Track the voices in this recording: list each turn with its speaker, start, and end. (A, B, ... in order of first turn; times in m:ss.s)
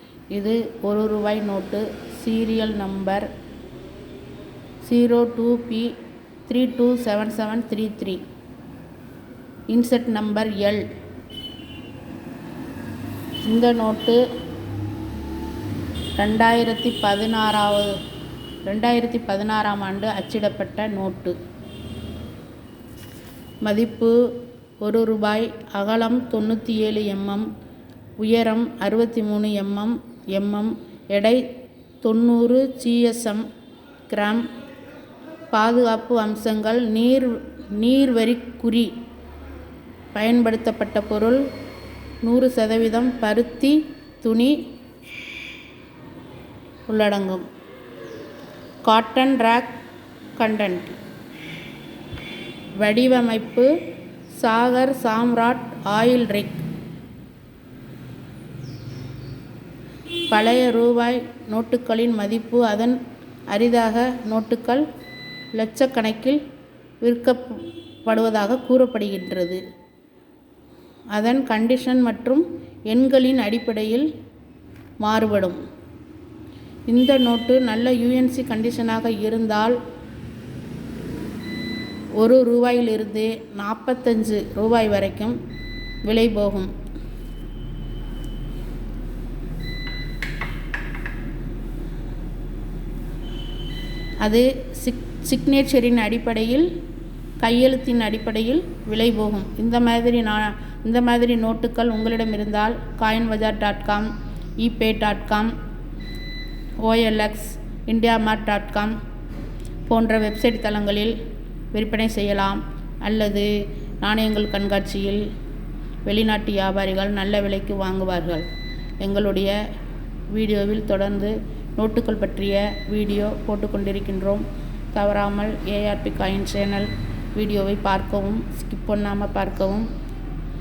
0:00.3-0:03.3 A
0:04.8-0:05.9 A
0:06.5-0:08.2 A
0:09.7-0:10.8 A
0:13.4-0:14.2 A
0:16.2-0:18.0 A
0:18.6-0:21.4 A
0:23.6-0:24.2 A
0:24.8-0:27.5 A
0:28.2-0:31.4 A
0:32.0-0:33.4 A
0:34.1-0:34.4 A
0:35.5-0:38.9 A
0:40.1-0:41.4 A
0:42.2-0:44.6 A
0:46.9-0:47.5 A
0:48.8-0:49.8 A
0:50.4-0:51.0 A
0:52.8-0:53.7 A
0:54.4-0:56.6 A
1:00.3-1:03.0 A
1:03.5-1:04.8 A
1:05.5-1:06.4 A
1:07.0-1:09.6 A
1:11.1-1:14.1 A
1:15.0-1:15.6 A
1:16.9-1:19.8 A
1:22.2-1:25.4 A
1:26.0-1:26.7 A
1:34.2-1:36.7 A
1:37.4-1:45.5 A
1:46.8-1:49.0 A
1:49.9-1:51.2 A
1:51.7-1:55.2 A
1:56.1-1:58.5 A
1:59.0-1:59.6 A
2:00.3-2:09.9 A